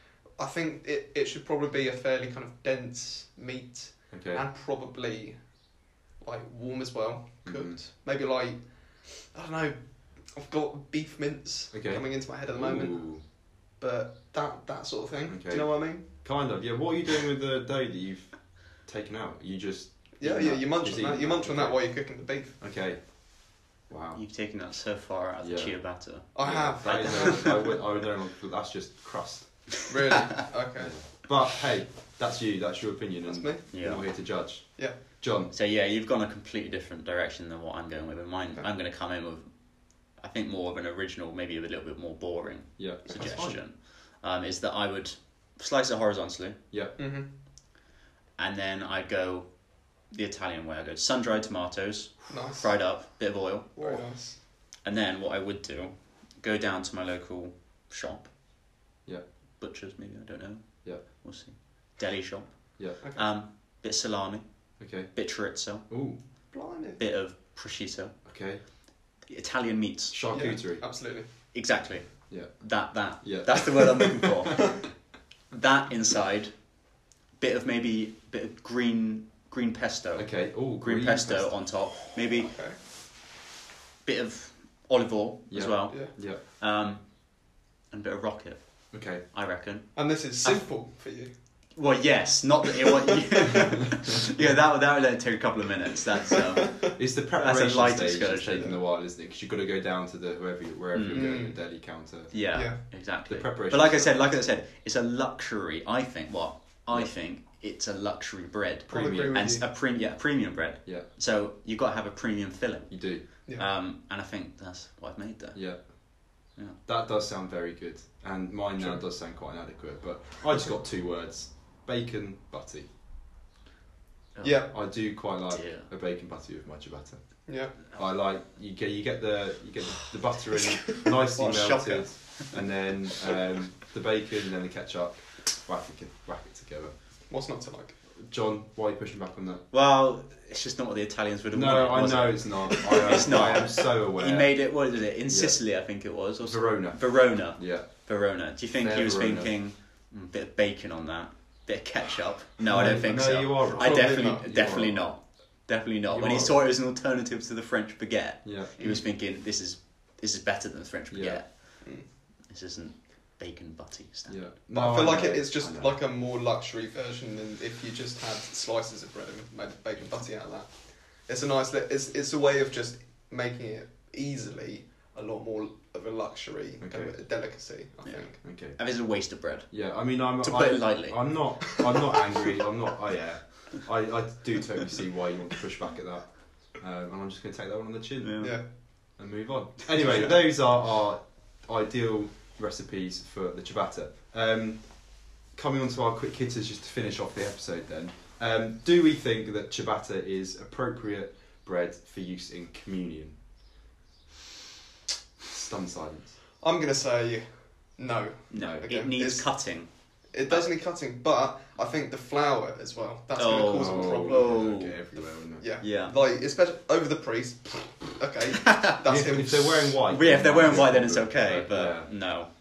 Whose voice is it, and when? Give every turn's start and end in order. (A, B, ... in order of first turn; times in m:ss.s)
0:00.3-0:16.1 A
0:04.1-0:04.4 B
0:07.4-0:07.8 B
0:11.7-0:13.2 B
0:15.3-0:24.2 B
0:20.2-0:22.6 A
0:24.1-0:27.5 C
0:25.4-0:29.8 B
0:26.3-0:27.8 A
0:29.8-0:31.3 A
0:30.8-0:35.5 B
0:33.2-0:34.1 A
0:33.7-0:34.0 C
0:35.5-0:46.6 C
0:42.8-0:43.6 B
0:46.7-0:47.0 B
0:47.0-0:47.3 A
0:48.4-0:54.2 C
0:52.3-0:52.9 A
0:53.8-0:54.4 A
0:54.8-0:58.3 C
0:59.6-1:08.2 C
1:03.0-1:03.3 A
1:04.8-1:06.2 B
1:06.5-1:07.0 A
1:08.2-1:08.6 B
1:09.2-1:10.4 C
1:10.1-1:10.9 B
1:10.3-1:11.3 A
1:11.5-1:14.9 C
1:12.3-1:14.2 B
1:15.5-1:16.8 C
1:17.4-1:22.6 C
1:20.2-1:21.8 B
1:22.4-1:22.8 A
1:24.0-1:30.7 C
1:25.5-1:26.4 B
1:28.9-1:29.2 B
1:29.9-1:31.3 A
1:31.7-1:38.7 C
1:36.9-1:42.6 B
1:40.9-1:41.7 C
1:41.1-1:41.9 A
1:42.3-1:56.0 C
1:42.5-1:42.8 A
1:43.2-1:44.3 B
1:48.9-1:49.4 B
1:48.9-1:49.6 A
1:52.9-1:53.2 B
1:55.5-2:02.9 B
2:04.3-2:05.9 C
2:04.4-2:04.7 A
2:04.7-2:16.9 B
2:07.4-2:07.7 A
2:11.0-2:12.6 C
2:17.3-2:18.0 A
2:18.2-2:19.6 B
2:19.7-2:44.4 C
2:21.5-2:25.8 B
2:22.8-2:23.6 A
2:26.4-2:28.0 B
2:28.8-2:29.6 B
2:32.6-2:35.4 B
2:33.7-2:34.5 A
2:36.1-2:36.6 B
2:38.4-2:38.7 B
2:41.1-2:41.4 B
2:44.3-2:45.9 B
2:44.7-2:58.4 A
2:56.8-2:57.2 B
2:58.0-3:01.6 C
2:58.4-2:58.8 B
2:59.7-3:23.4 B
3:08.2-3:09.1 C
3:08.4-3:08.7 A
3:25.5-3:26.4 B
3:26.6-3:39.8 A
3:28.5-3:30.7 C
3:28.5-3:28.9 B
3:33.4-3:36.1 C
3:33.7-3:35.8 B
3:39.0-3:42.2 B
3:40.1-3:42.5 C